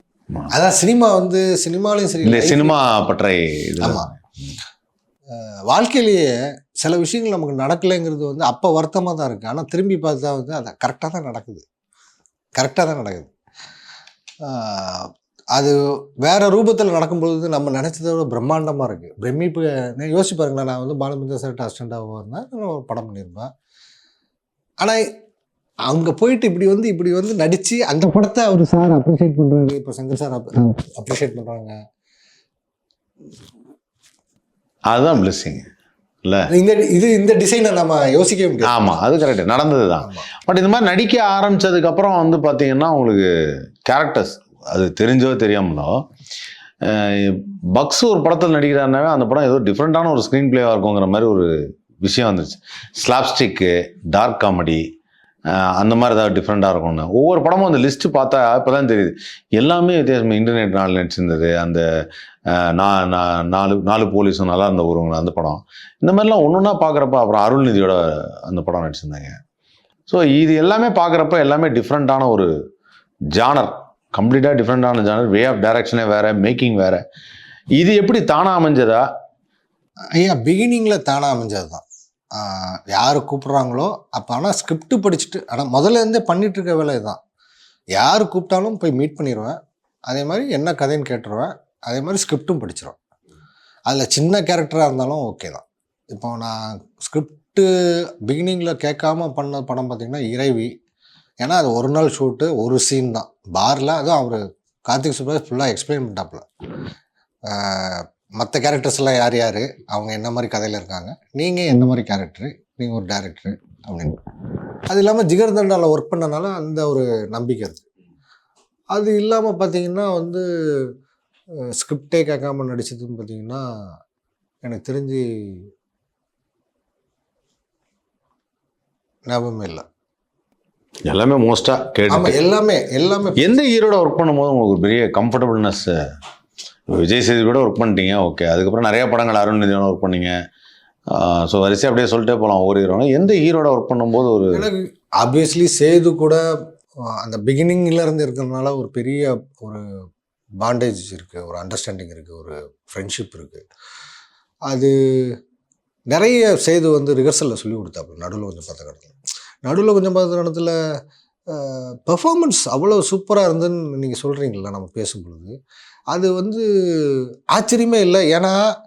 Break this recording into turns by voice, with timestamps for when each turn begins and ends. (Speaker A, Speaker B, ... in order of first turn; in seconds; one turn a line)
Speaker A: 0.5-2.8
Speaker B: 2.2-4.5
Speaker A: 3.8-4.1
Speaker A: 5.3-11.6
Speaker A: 12.6-13.3
Speaker A: 14.4-23.5
Speaker A: 25.9-31.7
Speaker B: 34.9-35.6
Speaker A: 36.5-39.0
Speaker B: 38.6-43.3
Speaker A: 40.0-40.3
Speaker B: 43.8-46.0
Speaker B: 46.8-54.8
Speaker B: 55.5-61.8
Speaker B: 62.5-69.4
Speaker B: 70.1-72.5
Speaker B: 73.3-77.0
Speaker B: 77.8-79.0
Speaker A: 80.2-87.2
Speaker A: 87.9-89.6
Speaker A: 90.1-93.0
Speaker A: 93.9-97.7
Speaker A: 98.2-100.7
Speaker A: 101.4-106.5
Speaker A: 107.5-114.2
Speaker A: 114.9-117.8
Speaker A: 118.9-120.4
Speaker A: 121.7-123.6
Speaker A: 124.6-125.7
Speaker A: 129.3-129.8
Speaker B: 131.1-132.3
Speaker A: 132.1-133.5
Speaker B: 133.4-136.0
Speaker B: 136.9-140.3
Speaker B: 141.1-144.7
Speaker A: 144.5-146.4
Speaker A: 147.2-149.8
Speaker A: 150.6-153.7
Speaker A: 154.7-155.4
Speaker A: 156.1-160.8
Speaker A: 161.5-165.5
Speaker A: 166.1-168.6